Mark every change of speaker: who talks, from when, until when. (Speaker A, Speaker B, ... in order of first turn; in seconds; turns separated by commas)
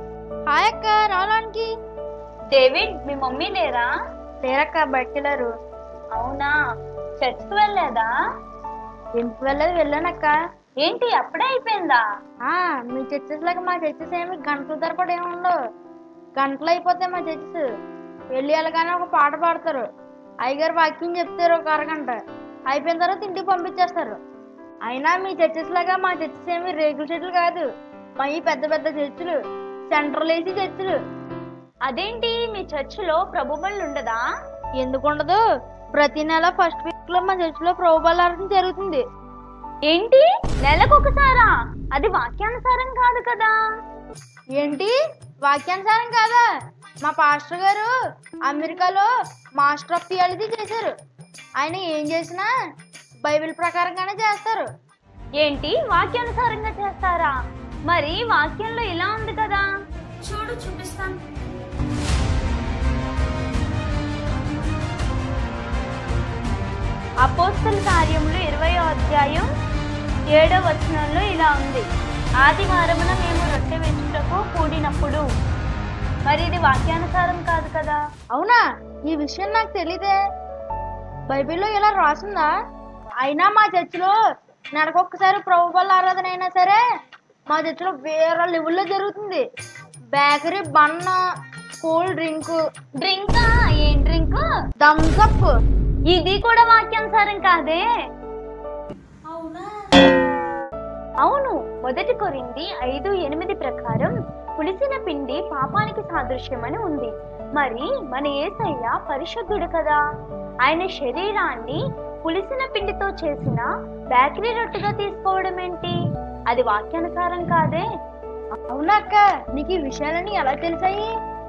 Speaker A: 0.5-1.7, Speaker B: 2.5-3.9, Speaker A: 4.5-5.5, Speaker B: 6.2-6.5, Speaker B: 7.2-8.1, Speaker A: 9.2-10.3, Speaker B: 10.8-12.0, Speaker A: 12.5-15.6, Speaker A: 16.4-17.7, Speaker A: 18.3-19.9, Speaker A: 20.4-22.2, Speaker A: 22.7-24.2, Speaker A: 24.9-27.6, Speaker A: 28.2-29.4, Speaker A: 29.9-31.0, Speaker B: 31.9-34.2, Speaker A: 34.8-35.4, Speaker A: 36.0-39.0, Speaker B: 39.9-43.5, Speaker A: 44.6-44.9, Speaker A: 45.5-46.4, Speaker A: 47.0-47.9, Speaker A: 48.5-49.1, Speaker A: 49.6-50.9, Speaker A: 51.6-52.5, Speaker A: 53.2-54.7, Speaker B: 55.4-57.3, Speaker B: 57.9-59.7, Speaker B: 60.2-61.2, Speaker B: 67.2-69.5, Speaker B: 70.3-71.8, Speaker B: 72.4-75.2, Speaker B: 76.3-78.0, Speaker A: 78.3-80.1, Speaker A: 81.3-82.5, Speaker A: 83.2-84.1, Speaker A: 84.8-86.8, Speaker A: 87.5-89.4, Speaker A: 90.1-91.2, Speaker A: 91.8-92.6, Speaker B: 93.0-94.4, Speaker A: 94.8-95.5, Speaker B: 96.1-97.8, Speaker A: 99.3-99.7, Speaker B: 101.2-110.0, Speaker B: 110.7-116.0, Speaker B: 116.5-117.8, Speaker A: 118.7-121.1